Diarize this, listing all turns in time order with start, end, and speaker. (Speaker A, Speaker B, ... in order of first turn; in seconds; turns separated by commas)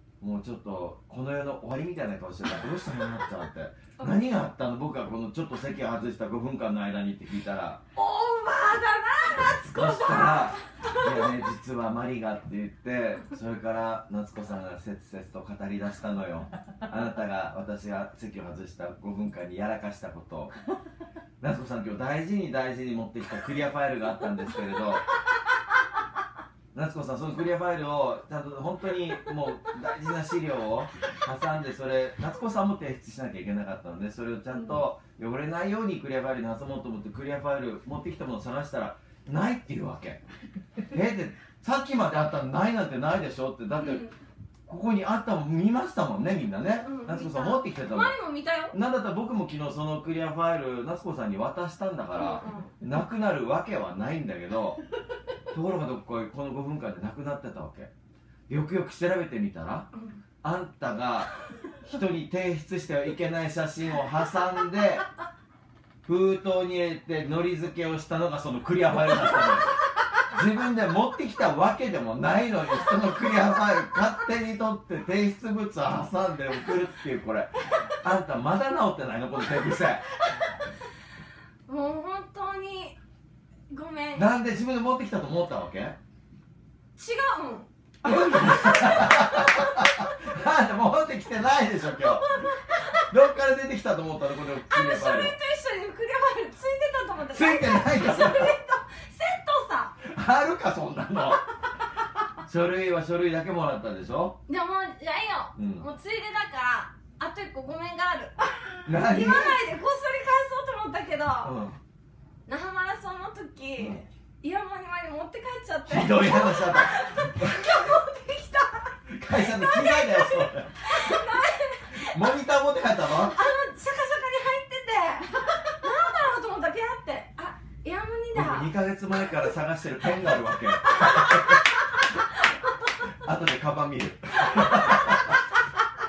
Speaker A: 0.2-7.8, Speaker B: 8.0-11.3, Speaker A: 9.6-20.6, Speaker A: 21.4-25.1, Speaker A: 26.7-40.2, Speaker A: 40.9-44.0, Speaker B: 43.8-44.1, Speaker A: 44.7-48.2, Speaker B: 46.8-48.8, Speaker A: 48.7-54.8, Speaker B: 52.1-52.8, Speaker A: 55.5-57.9, Speaker A: 58.5-59.9, Speaker A: 60.4-61.3, Speaker A: 61.8-65.0, Speaker A: 66.0-80.1, Speaker B: 81.7-83.0, Speaker B: 83.7-84.3, Speaker A: 84.2-86.0, Speaker B: 87.0-90.0, Speaker A: 88.0-95.4, Speaker B: 91.9-93.1, Speaker B: 94.7-100.0, Speaker A: 97.3-98.5, Speaker A: 100.0-101.4, Speaker A: 102.4-104.4, Speaker B: 104.5-111.5, Speaker A: 105.5-105.8, Speaker A: 108.8-109.6, Speaker A: 111.4-111.8, Speaker B: 112.5-122.3, Speaker A: 113.8-114.0, Speaker A: 115.8-117.8, Speaker A: 119.1-121.2, Speaker A: 122.0-123.4, Speaker B: 123.2-129.5, Speaker A: 128.3-131.6, Speaker B: 130.8-132.7, Speaker A: 133.2-135.4, Speaker B: 134.5-134.9